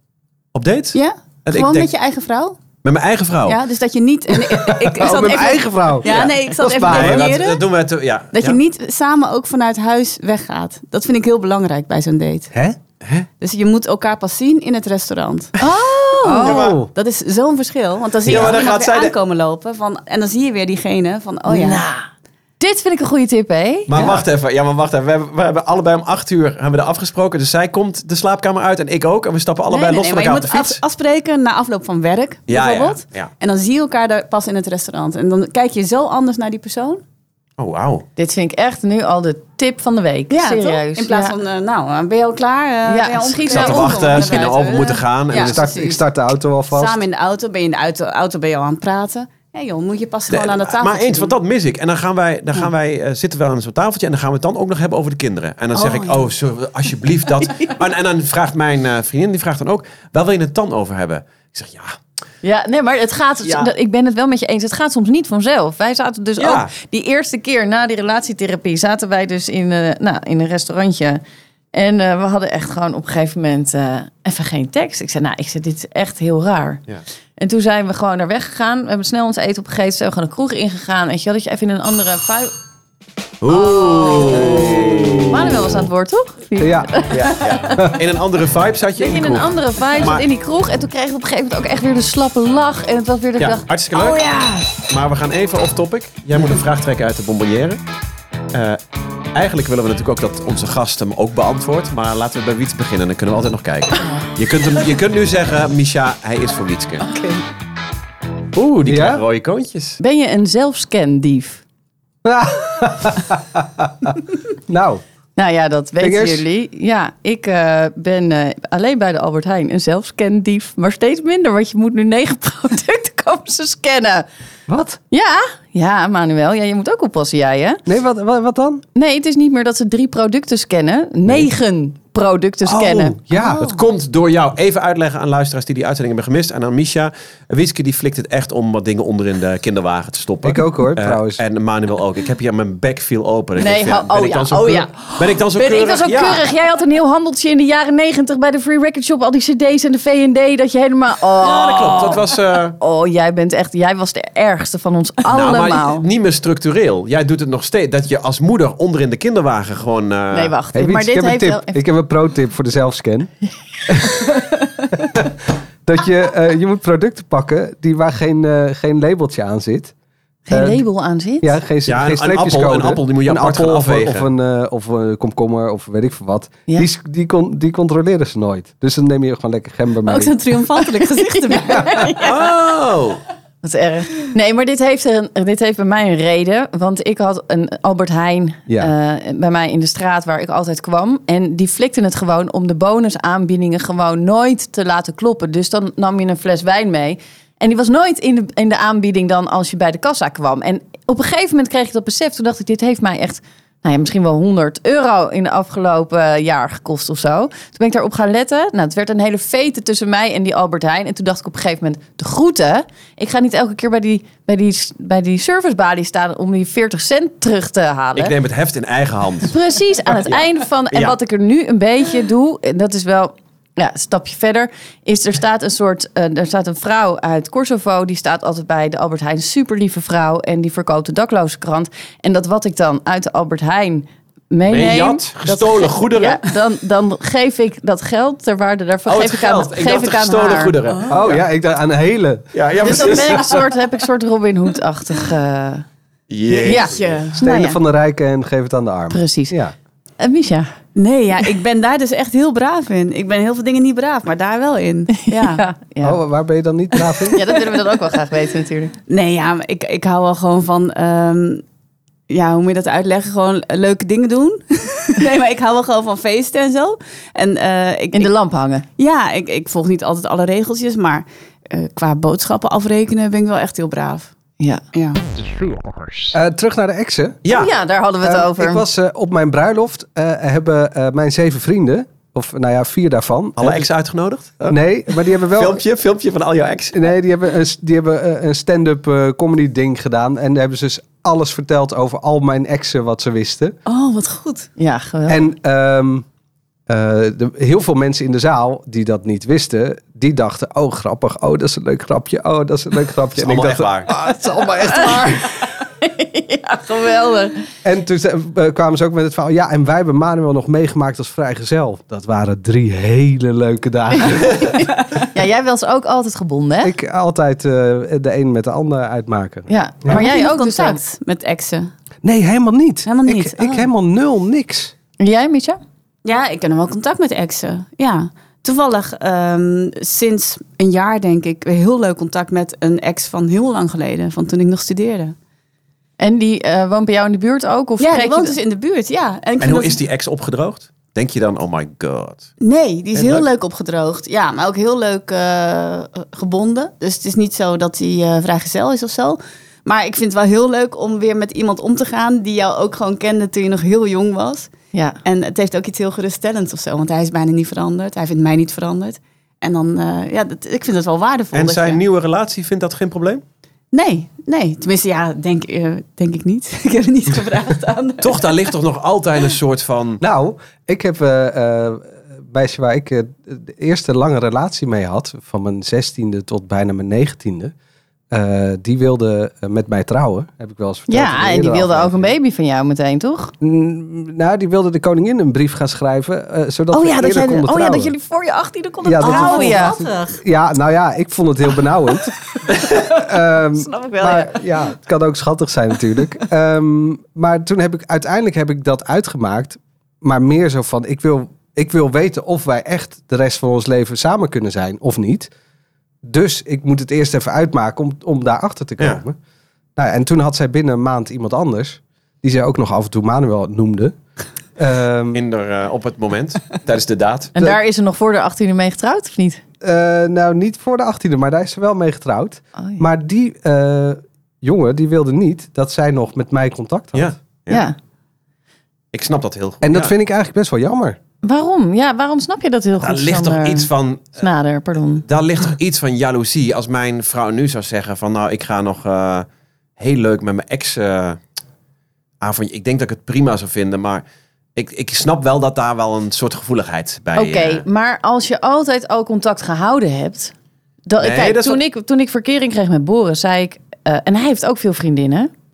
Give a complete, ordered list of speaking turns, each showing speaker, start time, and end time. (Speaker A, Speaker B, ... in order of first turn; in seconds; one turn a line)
Speaker A: 0.5-1.9
Speaker B: 0.9-2.6
Speaker A: 2.8-3.6
Speaker B: 3.5-7.6
Speaker C: 4.7-7.3
Speaker A: 6.0-8.6
Speaker B: 8.3-12.5
Speaker C: 12.5-12.8
Speaker A: 13.0-13.3
Speaker B: 13.4-15.5
Speaker D: 15.6-16.6
Speaker C: 16.2-16.9
Speaker B: 16.2-21.8
Speaker A: 16.4-16.8
Speaker A: 18.2-19.1
Speaker D: 21.5-22.0
Speaker D: 22.6-24.2
Speaker A: 23.9-30.8
Speaker B: 29.7-37.0
Speaker A: 32.5-33.3
Speaker A: 37.6-38.0
Speaker D: 38.2-41.3
Speaker B: 40.3-46.0
Speaker D: 42.9-44.6
Speaker A: 43.5-45.6
Speaker C: 45.3-47.0
Speaker B: 46.7-51.3
Speaker A: 50.3-62.0
Speaker B: 55.7-56.3
Speaker D: 62.4-71.2
Speaker A: 63.4-63.7
Speaker A: 66.4-66.7
Speaker D: 71.7-76.8
Speaker D: 77.4-82.5
Speaker A: 83.4-85.9
Speaker D: 83.5-87.7
Speaker C: 86.6-86.9
Speaker A: 87.1-90.2
Speaker D: 89.0-93.6
Speaker A: 93.4-94.2
Speaker B: 94.0-94.7
Speaker A: 94.8-97.8
Speaker A: 98.5-98.8
Speaker A: 99.3-107.0
Speaker B: 107.0-107.4
Speaker A: 108.5-110.0
Speaker C: 108.8-109.2
Speaker D: 110.0-111.6
Speaker C: 112.2-114.2
Speaker C: 114.7-115.0
Speaker D: 115.3-124.2
Speaker C: 116.0-116.4
Speaker C: 124.7-125.0
Speaker D: 125.1-127.8
Speaker C: 127.8-128.8
Speaker D: 128.9-133.2
Speaker C: 132.6-133.7
Speaker B: 133.3-133.8
Speaker A: 133.6-146.5
Speaker C: 140.4-141.4
Speaker D: 143.6-156.1
Speaker A: 151.4-152.8
Speaker A: 155.3-160.5
Speaker D: 160.3-161.8
Speaker C: 160.7-163.3
Speaker C: 163.9-164.2
Speaker C: 165.1-169.9
Speaker D: 170.5-171.5
Speaker C: 170.5-170.8
Speaker C: 171.4-180.3
Speaker A: 171.9-174.3
Speaker B: 180.1-182.5
Speaker D: 180.8-181.8
Speaker A: 182.2-183.2
Speaker D: 183.6-218.3
Speaker A: 218.2-219.5
Speaker D: 219.5-240.8
Speaker A: 220.1-221.2
Speaker A: 234.7-236.5
Speaker A: 239.1-241.4
Speaker C: 241.1-243.4
Speaker A: 242.5-243.6
Speaker D: 242.8-245.8
Speaker A: 246.3-247.2
Speaker B: 246.5-247.4
Speaker D: 246.6-247.8
Speaker C: 247.3-249.7
Speaker D: 249.1-249.6
Speaker D: 250.2-250.7
Speaker B: 250.9-255.6
Speaker D: 255.2-256.2
Speaker C: 256.0-257.4
Speaker D: 257.2-258.9
Speaker B: 259.1-261.6
Speaker B: 262.3-268.3
Speaker D: 268.1-268.8
Speaker B: 269.0-274.3
Speaker B: 274.9-275.2
Speaker C: 276.3-277.4
Speaker A: 277.4-277.7
Speaker D: 277.5-278.9
Speaker C: 278.2-283.8
Speaker A: 283.6-284.8
Speaker C: 284.7-285.8
Speaker A: 285.5-287.0
Speaker C: 286.9-293.7
Speaker B: 293.9-294.7
Speaker D: 294.8-295.5
Speaker C: 295.3-296.2
Speaker C: 296.9-305.6
Speaker A: 303.4-304.1
Speaker D: 306.0-307.6
Speaker C: 307.8-314.9
Speaker D: 315.1-316.9
Speaker C: 316.8-320.2
Speaker D: 319.7-321.0
Speaker B: 320.1-321.9
Speaker C: 322.2-324.9
Speaker B: 323.1-323.9
Speaker D: 325.2-325.8
Speaker B: 326.2-335.3
Speaker D: 336.2-338.5
Speaker B: 338.0-340.0
Speaker A: 339.6-342.5
Speaker B: 342.6-354.7
Speaker A: 343.1-343.4
Speaker B: 355.2-362.0
Speaker A: 361.5-363.4
Speaker B: 363.9-368.5
Speaker A: 368.2-370.2
Speaker C: 370.2-377.7
Speaker C: 378.3-382.3
Speaker D: 381.1-383.5
Speaker C: 383.6-388.1
Speaker D: 386.9-390.0
Speaker C: 389.0-392.3
Speaker B: 389.2-390.4
Speaker D: 392.7-393.0
Speaker C: 392.9-405.5
Speaker D: 393.7-394.6
Speaker C: 406.2-409.4
Speaker C: 409.9-414.1
Speaker C: 414.8-415.4
Speaker A: 415.3-417.5
Speaker D: 417.5-419.6
Speaker C: 419.8-427.3
Speaker D: 422.8-423.0
Speaker A: 427.1-427.9
Speaker D: 427.7-427.9
Speaker A: 429.1-430.1
Speaker C: 429.8-431.2
Speaker D: 431.4-435.2
Speaker A: 433.0-434.4
Speaker A: 435.2-439.5
Speaker A: 440.0-441.4
Speaker A: 442.4-444.2
Speaker A: 444.8-447.8
Speaker D: 447.3-450.5
Speaker D: 451.1-455.5
Speaker A: 451.2-451.8